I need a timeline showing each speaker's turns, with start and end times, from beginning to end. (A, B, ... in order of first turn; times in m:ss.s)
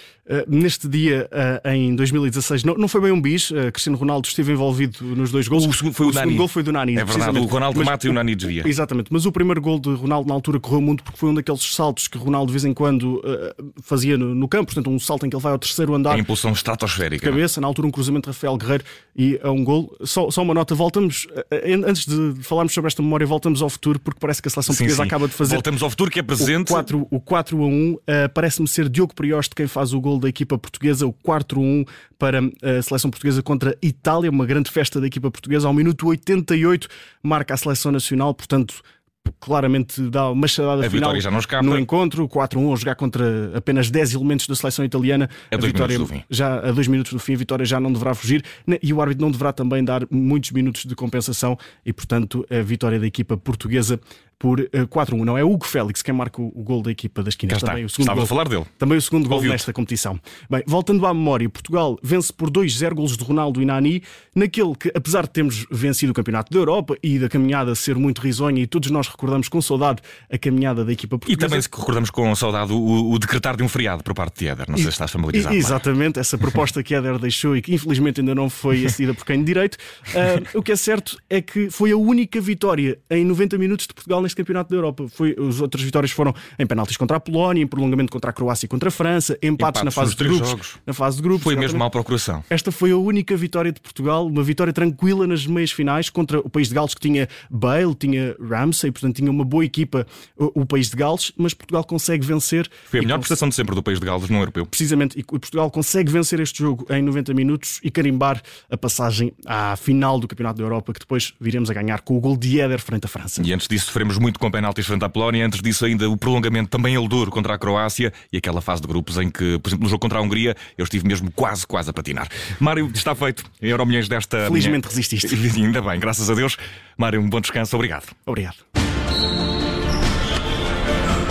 0:00.3-0:16.2 A
0:05.5-0:08.7 B
0:16.1-0:17.4 B
0:17.2-0:25.7 A
0:24.7-0:26.9 B
0:26.4-1:11.7 A
0:40.8-0:41.8 B
0:45.5-0:46.2 B
0:57.5-0:58.7 B
0:59.3-0:59.6 B
1:11.3-1:15.8 B
1:14.8-1:31.8 A
1:29.6-1:30.8 B
1:31.4-1:32.5 B
1:32.5-1:43.3 A
1:42.9-1:44.7 B
1:44.7-1:53.5 A
1:53.4-2:08.1 B
2:04.4-2:05.4 A
2:08.3-2:08.6 A